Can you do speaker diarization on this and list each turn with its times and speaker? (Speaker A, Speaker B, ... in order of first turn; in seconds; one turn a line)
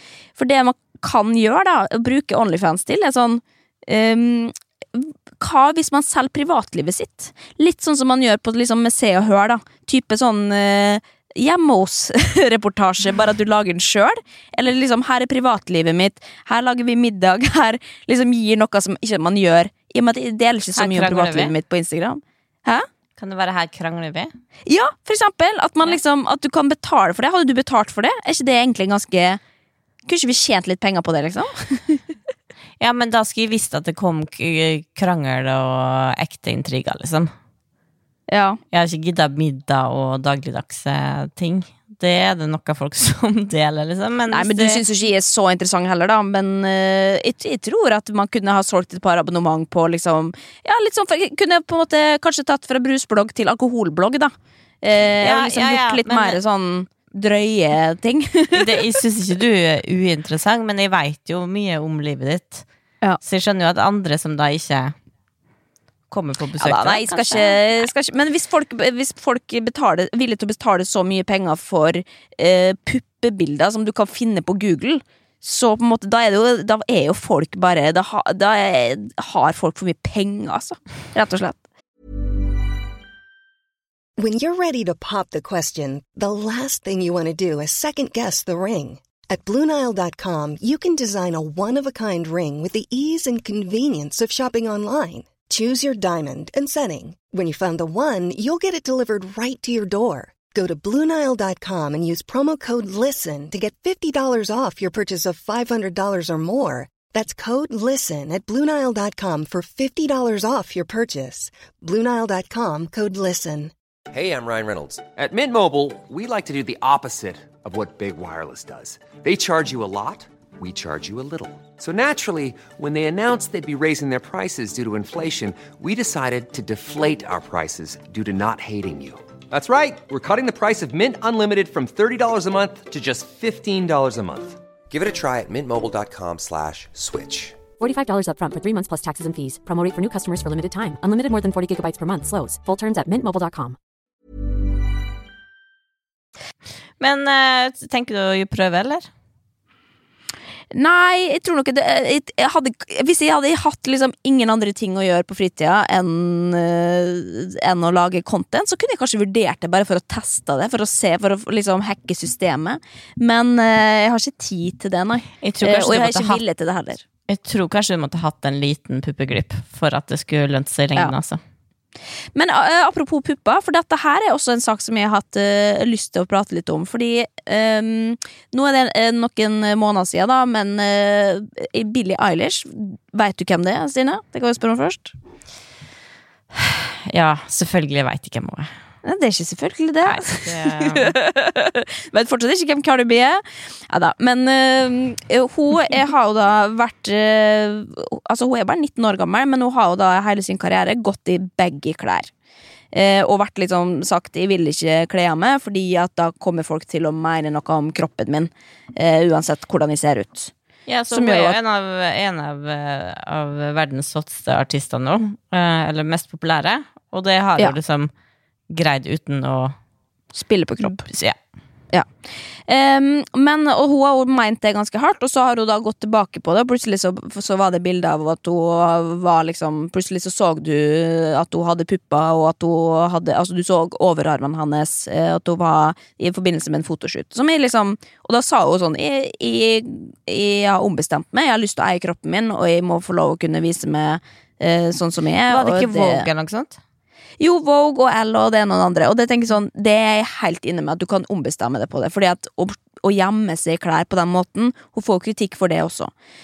Speaker A: 0.4-22.8
Speaker B: 20.7-21.5
Speaker B: 23.2-24.3
Speaker A: 24.7-29.4
Speaker A: 30.1-32.0
Speaker B: 32.8-37.3
Speaker A: 38.3-38.6
Speaker B: 38.7-44.8
Speaker A: 44.3-58.9
Speaker B: 55.2-56.4
Speaker B: 58.5-62.6
Speaker B: 63.2-64.9
Speaker B: 66.1-67.8
Speaker A: 66.6-81.6
Speaker C: 84.2-113.7
Speaker D: 114.1-137.6
Speaker E: 137.8-143.8
Speaker B: 147.0-149.1
Speaker A: 150.7-167.0
Speaker B: 165.4-166.4
Speaker B: 167.3-171.4
Speaker A: 172.3-185.1
Speaker B: 186.5-188.7
Speaker A: 189.0-202.3
Speaker B: 190.0-191.1
Speaker A: 202.9-210.5
Speaker B: 210.9-218.1
Speaker A: 211.1-211.6
Speaker B: 218.7-219.7
Speaker A: 220.3-221.0
Speaker B: 220.8-221.4
Speaker A: 222.7-246.3
Speaker B: 245.5-246.8
Speaker A: 247.4-256.1